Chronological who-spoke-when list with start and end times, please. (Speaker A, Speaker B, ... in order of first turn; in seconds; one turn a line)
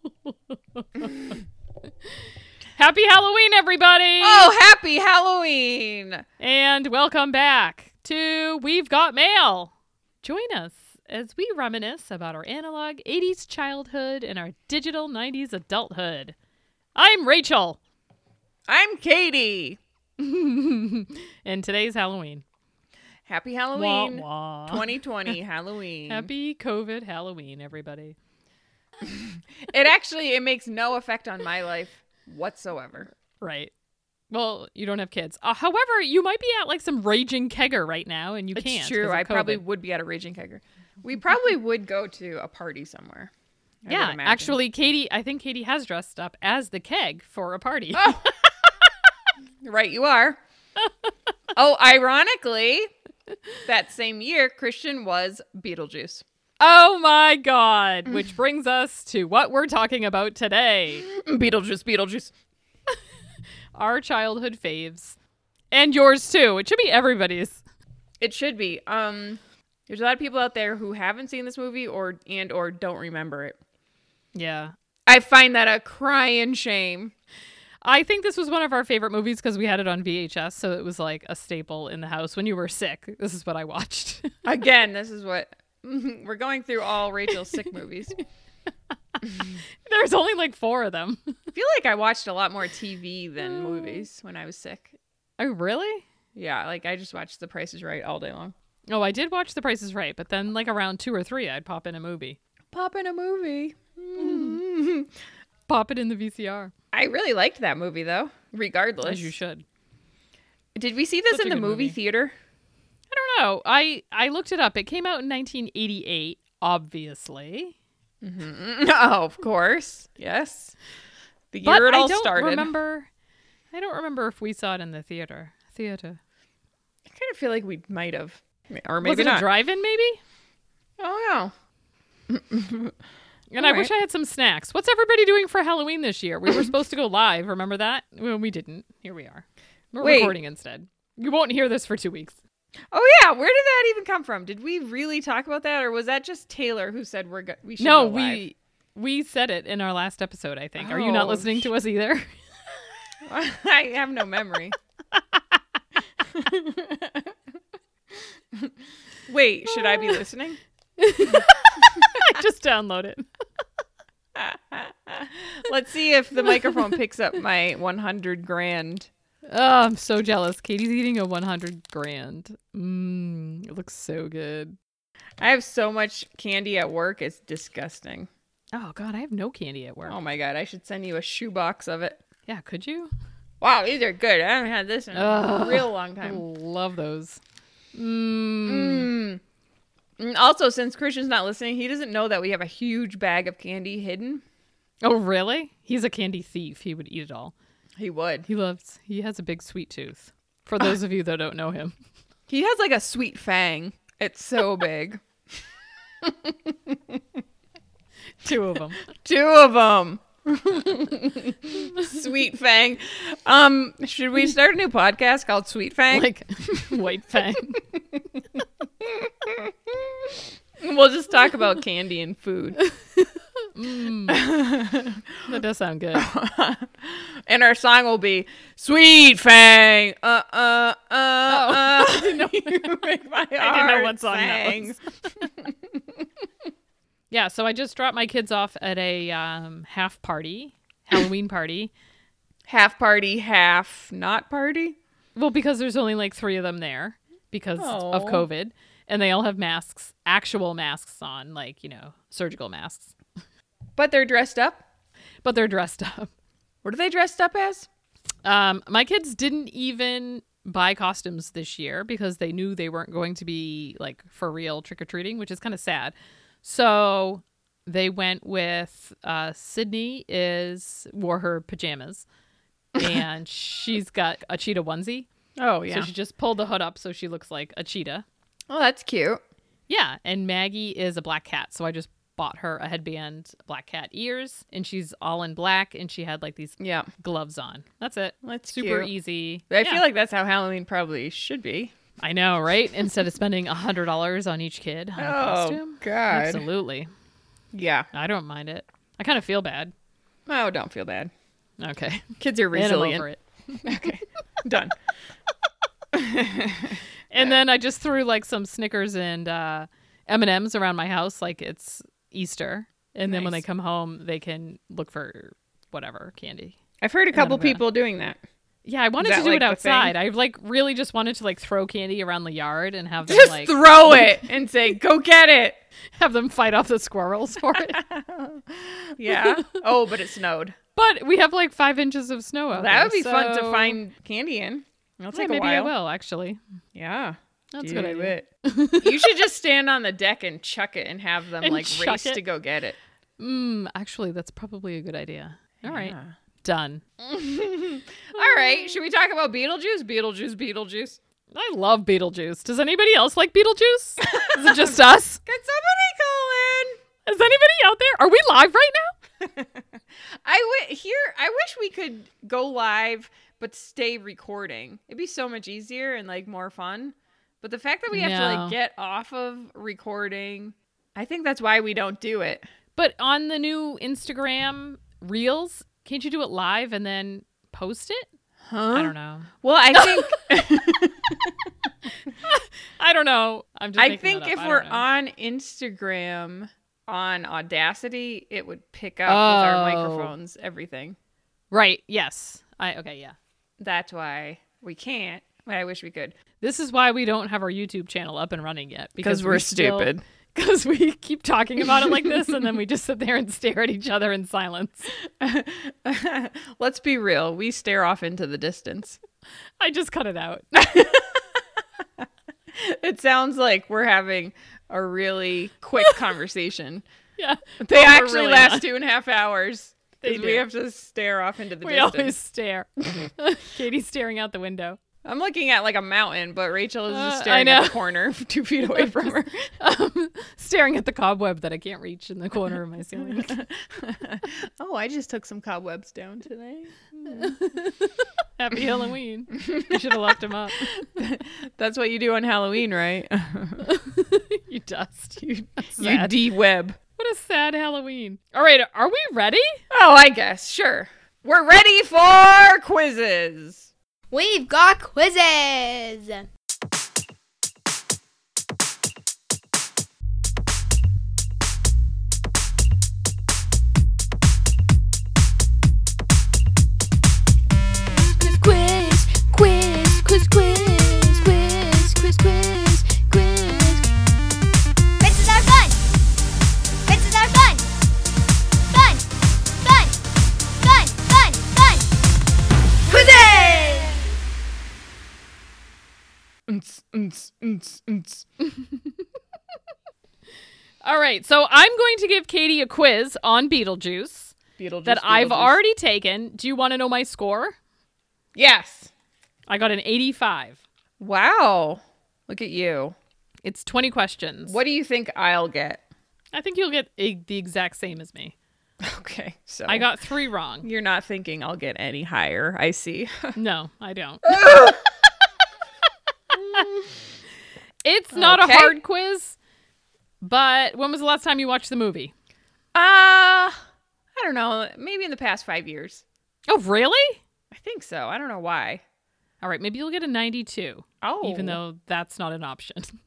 Speaker A: 0.2-1.4
Speaker A: 2.0-4.5
Speaker B: 4.2-6.2
Speaker A: 6.4-16.4
Speaker A: 16.9-17.8
Speaker B: 18.7-19.8
Speaker A: 20.2-22.4
Speaker B: 23.3-26.3
Speaker A: 23.7-24.9
Speaker A: 26.1-28.2
Speaker B: 29.0-33.1
Speaker A: 33.4-33.7
Speaker A: 34.3-39.6
Speaker B: 38.6-43.3
Speaker B: 43.8-44.6
Speaker A: 43.9-48.2
Speaker B: 47.9-48.5
Speaker B: 49.6-50.4
Speaker B: 51.5-52.9
Speaker B: 53.7-56.2
Speaker A: 56.6-61.1
Speaker B: 61.0-62.3
Speaker A: 63.7-65.2
Speaker A: 65.7-67.6
Speaker B: 68.2-73.6
Speaker A: 74.3-74.7
Speaker B: 75.1-77.1
Speaker A: 77.8-84.4
Speaker B: 84.4-88.2
Speaker A: 89.2-91.4
Speaker B: 91.5-95.0
Speaker A: 93.6-93.9
Speaker A: 95.4-96.0
Speaker B: 96.3-98.5
Speaker A: 98.9-102.4
Speaker B: 102.7-105.1
Speaker A: 104.2-104.6
Speaker A: 105.7-106.7
Speaker B: 106.9-109.3
Speaker A: 109.0-109.7
Speaker B: 110.8-112.3
Speaker A: 111.3-112.0
Speaker A: 113.1-117.8
Speaker B: 118.2-120.8
Speaker B: 121.5-122.7
Speaker A: 121.6-123.1
Speaker A: 123.7-126.2
Speaker B: 127.1-129.4
Speaker A: 129.0-130.2
Speaker B: 131.0-131.5
Speaker B: 132.3-132.9
Speaker A: 133.5-142.4
Speaker B: 133.6-133.9
Speaker B: 140.0-140.4
Speaker B: 142.9-148.4
Speaker A: 147.8-152.3
Speaker B: 150.8-151.7
Speaker B: 153.2-154.8
Speaker A: 155.1-155.6
Speaker B: 156.2-157.3
Speaker B: 158.1-158.7
Speaker B: 159.3-160.6
Speaker A: 161.0-163.3
Speaker B: 164.3-169.1
Speaker A: 169.5-174.8
Speaker B: 175.4-178.3
Speaker A: 178.7-180.2
Speaker B: 180.1-182.2
Speaker A: 182.5-183.1
Speaker B: 183.6-186.4
Speaker A: 185.1-187.4
Speaker A: 187.9-189.1
Speaker B: 188.7-189.4
Speaker B: 190.2-194.4
Speaker A: 195.0-197.5
Speaker B: 198.0-198.5
Speaker A: 198.5-201.9
Speaker B: 202.5-205.2
Speaker B: 206.2-207.2
Speaker A: 208.4-209.0
Speaker B: 209.1-217.1
Speaker A: 216.1-217.8
Speaker B: 217.7-222.8
Speaker A: 222.9-224.4
Speaker B: 224.3-225.5
Speaker A: 225.4-226.3
Speaker B: 226.1-236.2
Speaker A: 231.5-232.9
Speaker A: 233.6-235.3
Speaker A: 237.3-241.9
Speaker B: 242.7-245.0
Speaker A: 245.4-253.1
Speaker B: 247.8-248.5
Speaker B: 254.0-254.8
Speaker A: 255.4-256.3
Speaker B: 256.8-257.9
Speaker A: 258.4-272.3
Speaker B: 272.9-273.2
Speaker A: 273.0-275.3
Speaker B: 275.6-276.1
Speaker A: 275.9-278.3
Speaker B: 278.7-279.4
Speaker A: 279.9-290.0
Speaker B: 286.8-287.1
Speaker B: 288.4-289.1
Speaker B: 289.7-291.9
Speaker A: 292.2-297.1
Speaker B: 295.2-296.7
Speaker B: 297.7-298.1
Speaker A: 298.1-299.9
Speaker B: 300.5-301.3
Speaker A: 301.8-303.8
Speaker B: 302.4-303.3
Speaker B: 303.8-305.0
Speaker B: 306.1-307.6
Speaker A: 307.3-316.8
Speaker B: 313.2-313.6
Speaker B: 317.0-318.4
Speaker A: 317.3-317.8
Speaker A: 318.9-324.3
Speaker B: 319.2-320.1
Speaker B: 323.3-325.8
Speaker A: 326.2-328.0
Speaker B: 327.7-330.8
Speaker A: 331.0-334.0
Speaker B: 332.7-335.9
Speaker A: 335.3-336.6
Speaker B: 336.9-338.5
Speaker A: 337.7-339.4
Speaker B: 339.0-343.0
Speaker A: 341.6-342.4
Speaker A: 343.4-347.0
Speaker B: 345.8-346.3
Speaker B: 347.2-351.2
Speaker A: 348.4-348.9
Speaker A: 351.5-355.4
Speaker B: 354.2-357.0
Speaker A: 357.3-359.1
Speaker B: 359.4-372.6
Speaker A: 368.1-368.8
Speaker A: 373.0-378.3
Speaker B: 378.6-381.7
Speaker A: 378.9-380.4
Speaker A: 382.3-385.1
Speaker B: 384.0-391.2
Speaker A: 389.3-390.3
Speaker A: 391.7-393.4
Speaker B: 393.8-396.4
Speaker A: 396.6-405.1
Speaker B: 399.2-400.2
Speaker B: 402.0-402.3
Speaker B: 405.2-409.2
Speaker A: 409.8-411.2
Speaker B: 410.9-411.2
Speaker B: 412.2-417.1
Speaker A: 417.4-418.9
Speaker B: 417.8-422.4
Speaker A: 420.2-420.7
Speaker A: 421.8-425.0
Speaker B: 425.2-429.7
Speaker A: 427.1-428.0
Speaker A: 429.8-433.6
Speaker B: 433.2-437.6
Speaker A: 437.3-440.9
Speaker B: 439.6-440.1
Speaker B: 440.8-443.9
Speaker A: 443.8-446.4
Speaker B: 445.4-447.0
Speaker A: 447.2-449.8
Speaker B: 449.9-453.9
Speaker C: 454.3-456.5
Speaker C: 468.1-474.1
Speaker C: 475.2-476.0
Speaker C: 477.1-477.9
Speaker C: 478.9-480.2
Speaker C: 480.8-482.1
Speaker B: 483.1-484.1
Speaker C: 483.1-484.2
Speaker B: 486.7-488.4
Speaker A: 491.0-497.8
Speaker B: 494.8-495.8
Speaker B: 498.6-499.1
Speaker A: 499.7-500.8
Speaker B: 501.2-503.2
Speaker A: 503.6-504.8
Speaker B: 504.7-506.0
Speaker A: 506.5-508.6
Speaker B: 509.0-510.1
Speaker A: 509.9-510.9
Speaker B: 510.8-513.6
Speaker A: 513.5-514.6
Speaker B: 514.4-515.2
Speaker B: 516.5-517.1
Speaker A: 518.0-519.6
Speaker B: 518.3-519.0
Speaker A: 520.4-522.3
Speaker B: 522.9-523.8
Speaker B: 524.4-526.2
Speaker A: 526.7-527.4
Speaker B: 527.7-529.0
Speaker A: 529.6-533.1
Speaker B: 531.2-531.8